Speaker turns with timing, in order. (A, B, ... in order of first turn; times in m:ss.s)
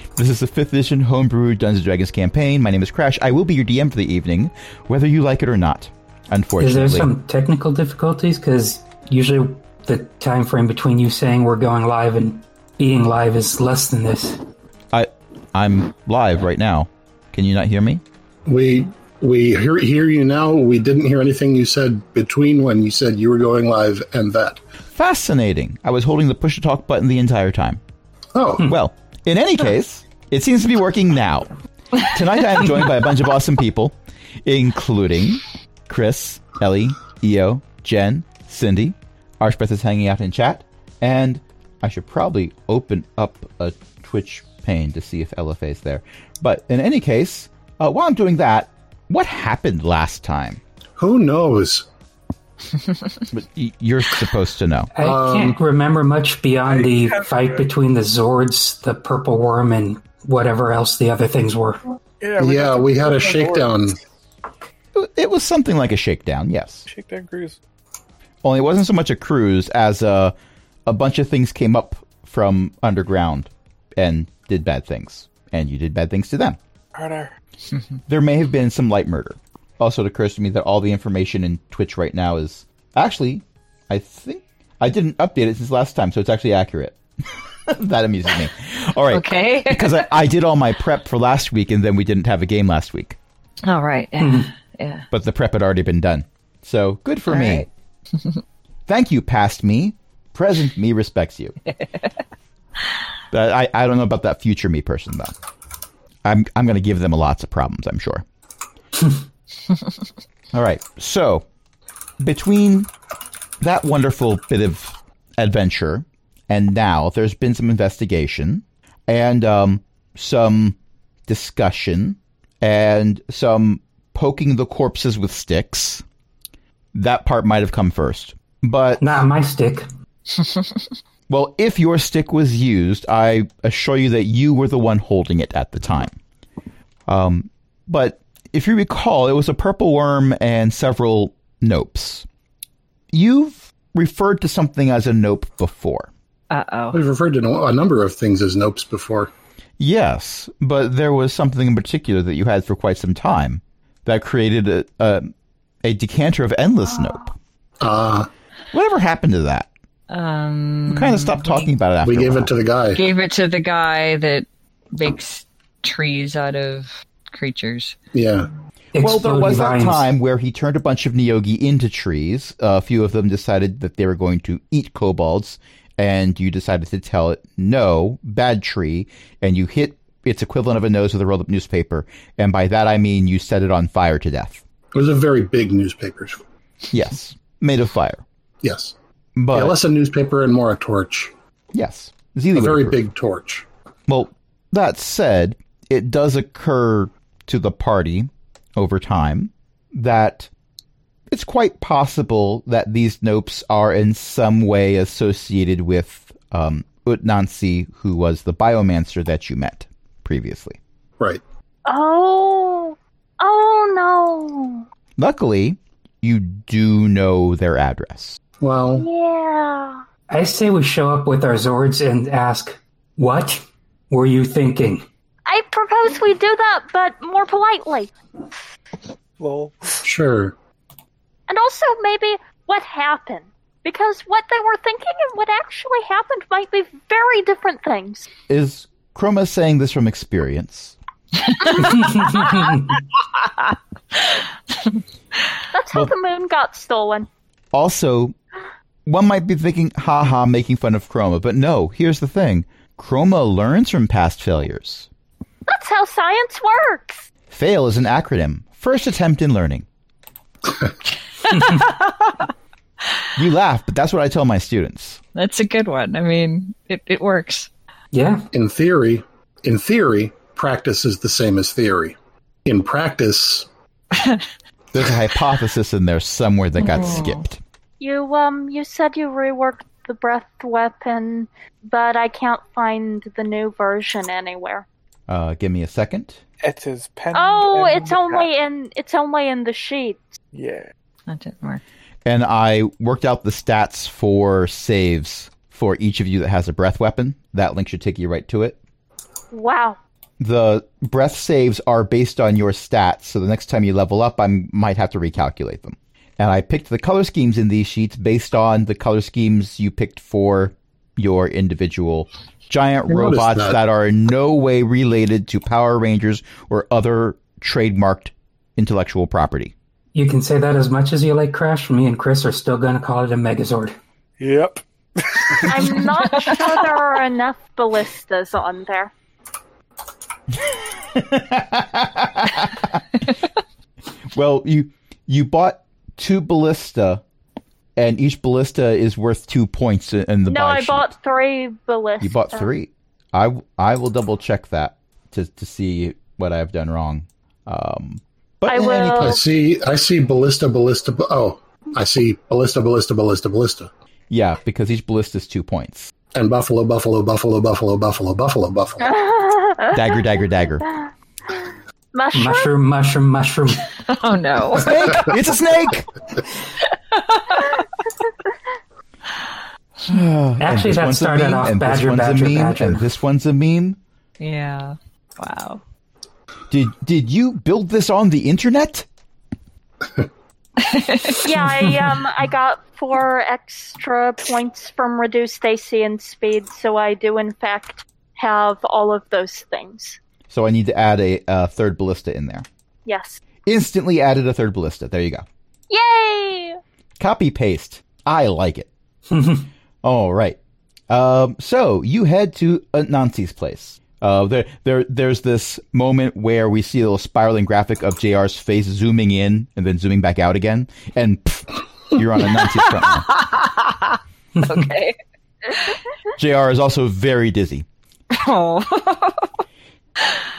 0:00.2-0:07.1 A
0:06.6-0:14.4 B
0:14.9-0:18.0 A
0:18.5-0:24.6 C
0:24.9-0:27.8 A
0:28.3-0:28.7 C
0:28.6-0:50.6 A
0:51.0-0:51.8 C
0:53.3-0:54.9 A
0:54.9-1:01.8 B
0:55.0-0:55.6 C
0:56.7-0:57.6 D
1:02.2-1:03.8 D
1:02.4-1:04.0 C
1:04.9-1:06.8 A
1:06.9-1:07.6 D
1:08.4-1:10.3 A
1:10.8-1:16.6 A
1:16.9-1:17.3 D
1:18.1-1:33.2 A
1:29.1-1:30.1 E
1:33.6-1:35.1 E
1:34.2-1:34.5 B
1:35.1-1:37.7 A
1:37.3-1:37.7 E
1:38.9-1:41.6 A
1:43.3-1:45.3 A
1:46.2-1:48.2 A
1:50.5-1:51.4 A
1:52.2-1:52.9 A
1:53.6-2:06.0 A
2:06.9-2:09.0 A
2:09.0-2:09.8 B
2:11.3-2:16.2 A
2:17.1-2:22.2 A
2:23.1-2:26.1 A
2:26.5-2:27.0 E
2:26.9-2:29.3 C
2:29.8-2:35.3 A
2:35.8-2:37.3 A
2:37.8-2:38.3 C
2:38.7-2:39.7 A
2:40.1-2:41.7 E
2:40.9-2:42.5 A
2:42.0-2:43.0 C
2:42.9-2:47.9 E
2:48.1-2:48.5 C
2:48.9-2:50.0 B
2:49.0-3:04.6 A
3:04.9-3:06.4 C
3:06.9-3:08.2 A
3:08.6-3:08.9 C
3:09.4-3:09.8 A
3:09.5-3:11.3 C
3:11.7-3:13.0 A
3:12.5-3:13.6 C
3:14.1-3:20.5 A
3:21.3-3:30.8 A
3:31.8-3:34.8 F
3:35.2-3:38.4 A
3:38.6-3:39.0 C
3:39.0-3:40.0 F
3:40.3-3:45.0 B
3:45.5-3:48.1 F
3:49.4-3:50.0 D
3:50.0-3:50.5 C
3:51.5-3:58.3 F
3:58.5-4:00.9 A
4:01.8-4:02.8 B
4:05.7-4:07.3 F
4:07.7-4:08.3 A
4:09.0-4:15.1 A
4:15.7-4:17.2 F
4:17.5-4:19.8 A
4:21.5-4:22.4 E
4:21.5-4:21.8 B
4:23.4-4:25.2 A
4:25.3-4:27.7 E
4:28.1-4:28.5 B
4:28.5-4:33.7 C
4:34.1-4:34.4 E
4:34.9-4:37.6 A
4:36.8-4:37.4 E
4:38.0-4:44.8 F
4:45.3-4:46.4 A
4:46.6-4:48.5 D
4:47.3-4:50.4 F
4:50.5-4:50.9 D
4:51.3-4:51.8 E
4:52.2-4:58.8 A
4:59.5-5:00.0 F
5:00.4-5:19.7 A
5:13.1-5:13.8 C
5:20.1-5:23.9 B
5:24.4-5:25.7 D
5:25.6-5:29.1 F
5:30.6-5:33.0 A
5:34.3-5:37.2 A
5:38.0-5:41.1 A
5:40.5-5:42.7 F
5:42.2-5:49.4 A
5:48.6-5:49.4 F
5:49.2-5:53.9 C
5:54.3-5:56.1 A
5:56.3-5:59.2 C
5:59.0-6:00.0 F
5:59.9-6:00.8 A
6:01.0-6:02.7 F
6:02.3-6:03.9 B
6:04.1-6:05.4 E
6:04.8-6:06.1 A
6:07.1-6:07.7 E
6:10.1-6:14.0 A
6:10.6-6:13.0 B
6:14.4-6:15.8 E
6:16.7-6:19.1 A
6:20.8-6:21.4 E
6:21.4-6:30.2 F
6:30.5-6:32.6 A
6:33.0-6:33.4 F
6:33.6-6:35.4 A
6:35.9-6:36.8 F
6:37.2-6:38.9 A
6:39.3-6:39.6 B
6:40.0-6:40.6 A
6:41.1-6:53.3 A
6:52.8-6:55.2 E
6:56.4-6:57.8 A
6:58.3-6:59.5 E